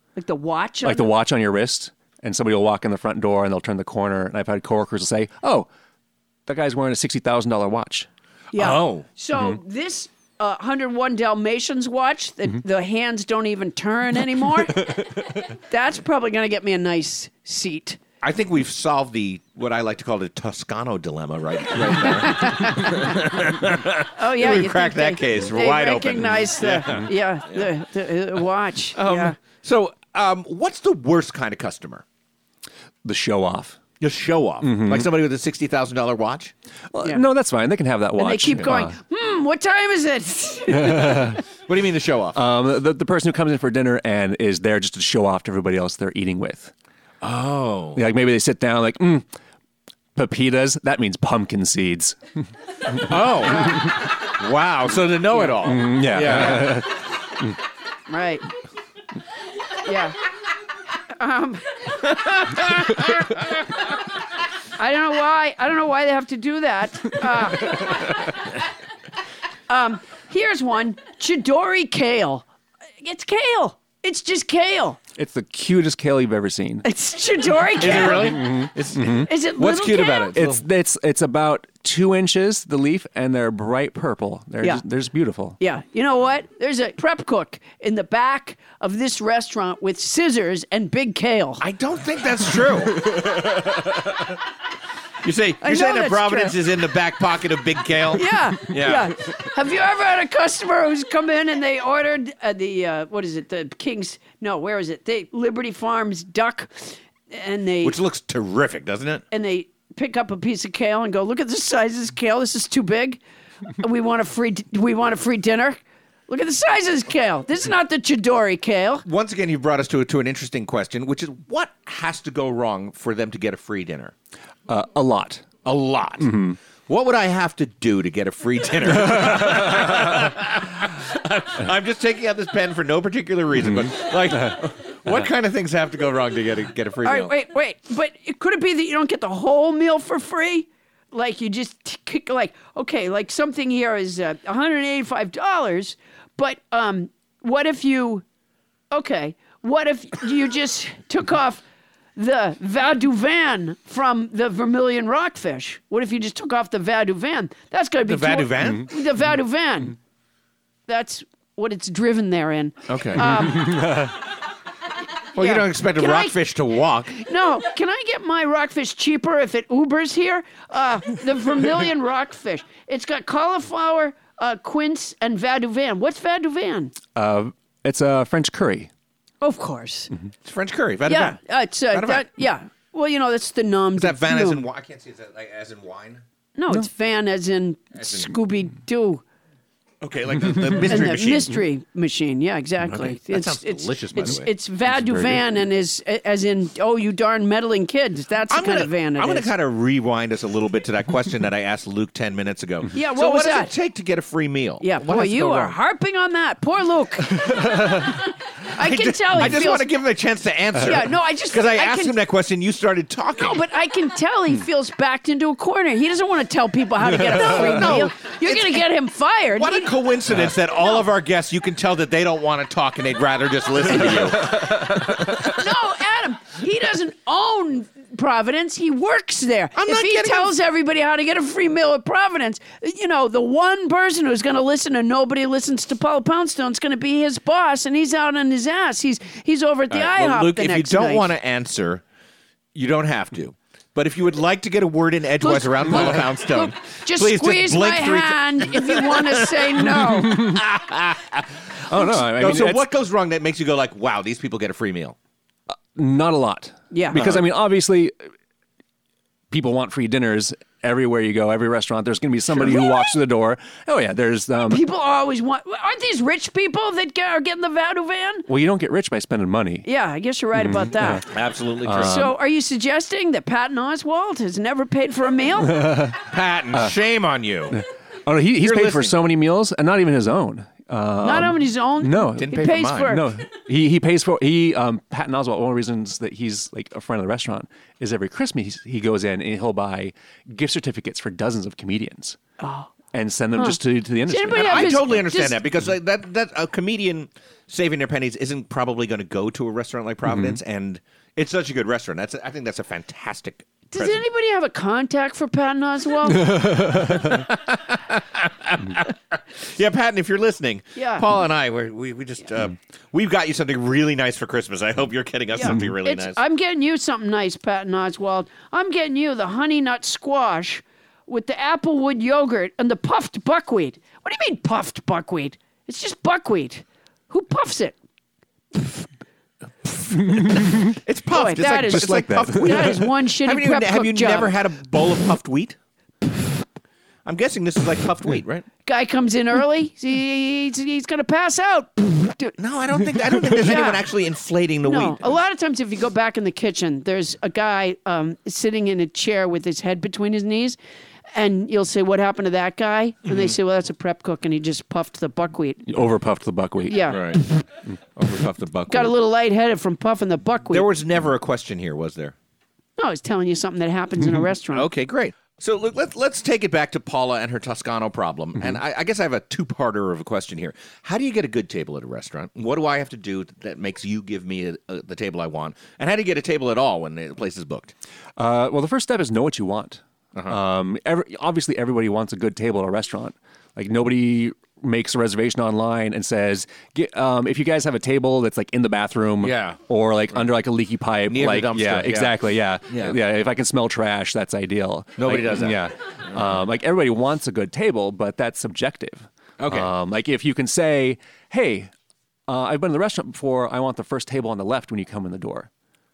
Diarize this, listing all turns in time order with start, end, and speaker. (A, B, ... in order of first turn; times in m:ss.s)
0:00.2-0:01.1 A
0:00.8-0:05.7 B
0:06.4-0:08.1 B
0:08.5-0:14.9 A
0:08.5-0:09.0 C
0:15.7-0:18.0 A
0:18.2-0:27.7 C
0:22.0-0:23.1 A
0:24.1-0:29.4 A
0:28.9-0:32.0 C
0:33.0-0:33.8 B
0:34.0-0:36.5 C
0:34.6-0:35.1 B
0:36.9-0:39.0 B
0:38.2-0:41.3 A
0:40.7-0:41.4 B
0:41.7-0:42.4 C
0:42.3-0:46.7 B
0:47.2-0:48.0 C
0:47.9-0:49.2 B
0:50.1-0:52.2 B
0:52.9-0:56.8 C
0:55.6-0:57.0 B
0:58.1-0:58.4 A
0:59.8-1:00.2 A
1:01.2-1:01.8 A
1:02.2-1:03.4 C
1:04.8-1:08.2 A
1:09.7-1:12.5 A
1:13.0-1:15.0 A
1:15.2-1:16.8 B
1:16.8-1:18.4 A
1:17.8-1:20.6 C
1:17.9-1:19.3 B
1:19.2-1:20.3 A
1:20.3-1:25.6 B
1:25.6-1:31.6 A
1:31.6-1:34.2 C
1:35.2-1:39.1 C
1:35.6-1:36.6 A
1:38.2-1:48.0 A
1:47.8-1:49.2 C
1:49.3-1:53.2 A
1:53.8-1:59.0 A
1:59.0-2:04.1 C
2:04.7-2:05.5 B
2:05.6-2:06.3 C
2:06.2-2:06.6 B
2:06.9-2:17.3 C
2:17.0-2:28.2 A
2:28.9-2:31.6 A
2:32.2-2:40.0 A
2:38.0-2:38.9 C
2:40.9-2:43.8 A
2:42.9-2:43.3 C
2:43.6-2:44.1 B
2:45.3-2:47.1 C
2:45.4-2:46.4 A
2:47.1-2:56.9 A
2:57.2-2:58.9 B
2:59.4-3:00.1 A
3:00.4-3:01.4 C
3:01.1-3:04.6 A
3:01.9-3:02.4 C
3:03.9-3:06.2 C
3:06.6-3:09.2 A
3:08.0-3:08.4 C
3:10.0-3:11.6 C
3:10.8-3:19.5 A
3:12.8-3:14.5 C
3:14.9-3:15.4 B
3:18.5-3:25.7 C
3:22.9-3:23.7 A
3:24.8-3:27.7 A
3:28.7-3:29.9 A
3:28.7-3:33.6 C
3:30.8-3:32.1 A
3:33.4-3:40.0 A
3:37.3-3:38.9 C
3:39.6-3:45.5 C
3:45.4-4:01.3 A
3:49.7-3:50.5 C
3:59.9-4:02.0 C
4:02.7-4:15.2 C
4:05.4-4:10.4 A
4:10.3-4:10.6 B
4:11.9-4:12.8 B
4:15.9-4:18.3 B
4:16.9-4:17.2 A
4:17.1-4:17.4 C
4:19.5-4:24.8 B
4:22.6-4:23.1 A
4:24.6-4:28.5 A
4:28.5-4:29.8 B
4:29.8-4:31.2 A
4:30.6-4:31.2 B
4:31.3-4:32.3 C
4:31.8-4:32.3 B
4:32.0-4:35.9 A
4:35.7-4:36.2 B
4:36.1-4:37.8 C
4:38.2-4:52.4 B
4:38.6-4:39.2 C
4:41.2-4:43.2 A
4:42.4-4:43.2 C
4:52.6-4:52.9 A
4:53.1-4:55.2 B
4:54.3-4:55.6 A
4:54.5-5:04.2 C
5:00.3-5:00.6 B
5:03.9-5:06.8 A
5:06.5-5:07.2 B
5:06.9-5:16.4 C
5:11.0-5:11.3 A
5:15.6-5:28.0 A
5:28.7-5:29.1 A
5:29.8-5:35.8 C
5:30.4-5:30.8 B
5:31.3-5:34.6 A
5:31.9-5:32.9 B
5:37.2-5:38.7 C
5:38.8-5:42.6 A
5:42.6-5:45.4 C
5:43.5-5:44.0 A
5:44.8-5:50.8 A
5:51.3-5:55.8 A
5:55.9-5:57.4 B
5:56.9-5:57.2 A
5:57.1-5:57.4 C
5:58.2-5:59.1 C
5:58.9-6:00.9 A
6:00.7-6:02.3 C
6:03.0-6:04.9 A
6:04.7-6:17.9 C
6:18.4-6:41.9 B
6:29.4-6:29.8 C
6:31.2-6:33.2 C
6:35.2-6:36.6 C
6:39.6-6:39.9 C
6:42.5-6:45.7 B